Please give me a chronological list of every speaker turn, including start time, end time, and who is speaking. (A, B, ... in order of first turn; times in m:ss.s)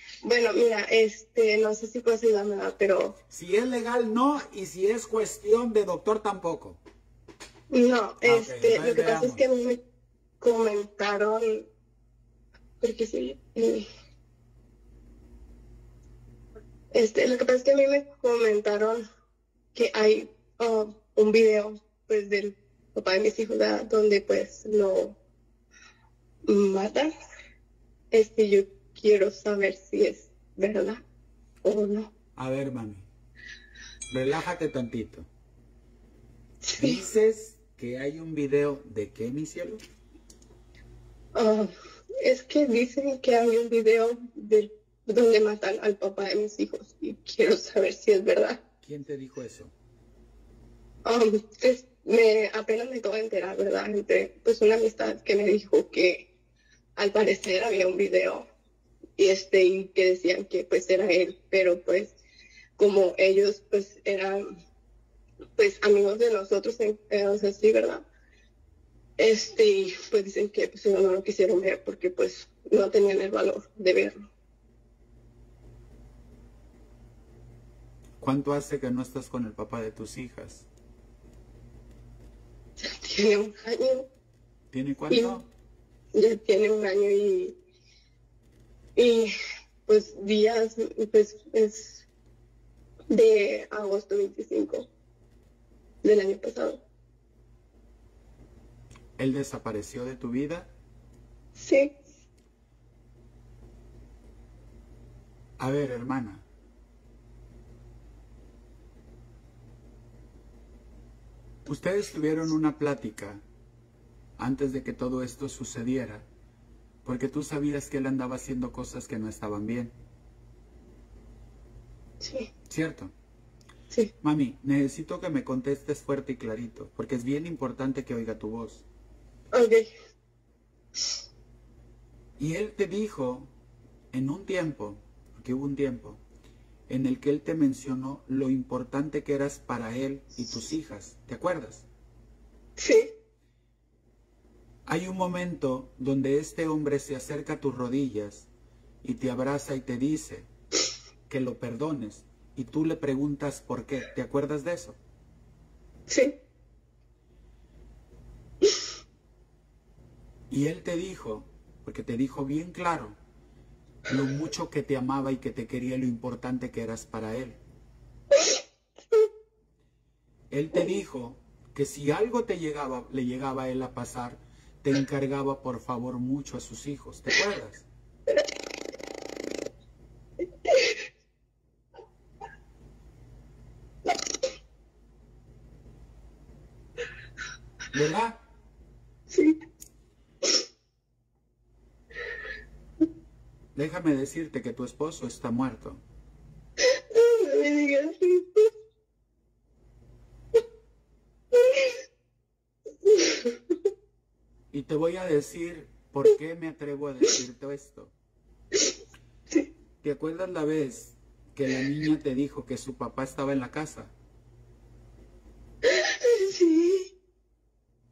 0:00.2-0:03.2 A
0:03.3-0:06.8 B
0:07.7-0:09.8 A
0:08.2-0:09.4 B
0:10.4-0:11.7 A
0:12.8-0:13.9 A
0:16.9-0:19.0 A
0:19.7-0:25.2 A
0:26.5-0:27.1 A
0:28.1-0:31.0 A
0:31.6-0:32.1 A
0:32.4-0:33.1 B
0:34.1-0:35.3 B
0:36.6-0:37.0 A
0:36.8-0:39.8 B
0:41.3-0:48.6 A
0:48.8-0:49.7 B
0:51.0-0:56.3 A
0:57.0-0:58.4 A
0:59.2-1:02.2 A
1:02.8-1:04.4 A
1:05.6-1:08.0 A
1:09.2-1:14.2 A
1:18.2-1:20.7 B
1:22.8-1:24.1 A
1:24.7-1:25.5 B
1:25.1-1:25.4 A
1:26.1-1:27.6 A
1:29.0-1:29.3 A
1:29.8-1:32.1 A
1:33.1-1:34.9 A
1:36.0-1:36.8 A
1:39.2-1:40.7 B
1:41.6-1:41.9 A
1:45.6-1:46.4 B
1:51.6-1:53.4 B
1:54.4-1:56.3 B
1:57.0-1:59.9 B
2:02.2-2:02.5 A
2:02.7-2:03.1 B
2:04.2-2:08.8 B
2:09.5-2:09.9 A
2:12.4-2:13.5 B
2:14.1-2:16.2 B
2:16.9-2:21.9 B
2:22.8-2:23.1 A
2:24.8-2:28.5 B
2:29.0-2:30.5 B
2:31.3-2:35.0 B
2:36.1-2:36.4 A
2:40.5-2:43.2 B
2:44.1-2:47.6 B
2:50.5-2:57.9 B
3:00.6-3:01.0 A
3:07.9-3:08.4 B
3:09.3-3:09.6 A
3:13.7-3:16.0 B
3:16.8-3:18.7 A
3:21.5-3:21.9 A
3:23.0-3:23.6 A
3:24.7-3:28.1 B
3:30.0-3:34.1 B
3:35.8-3:37.1 A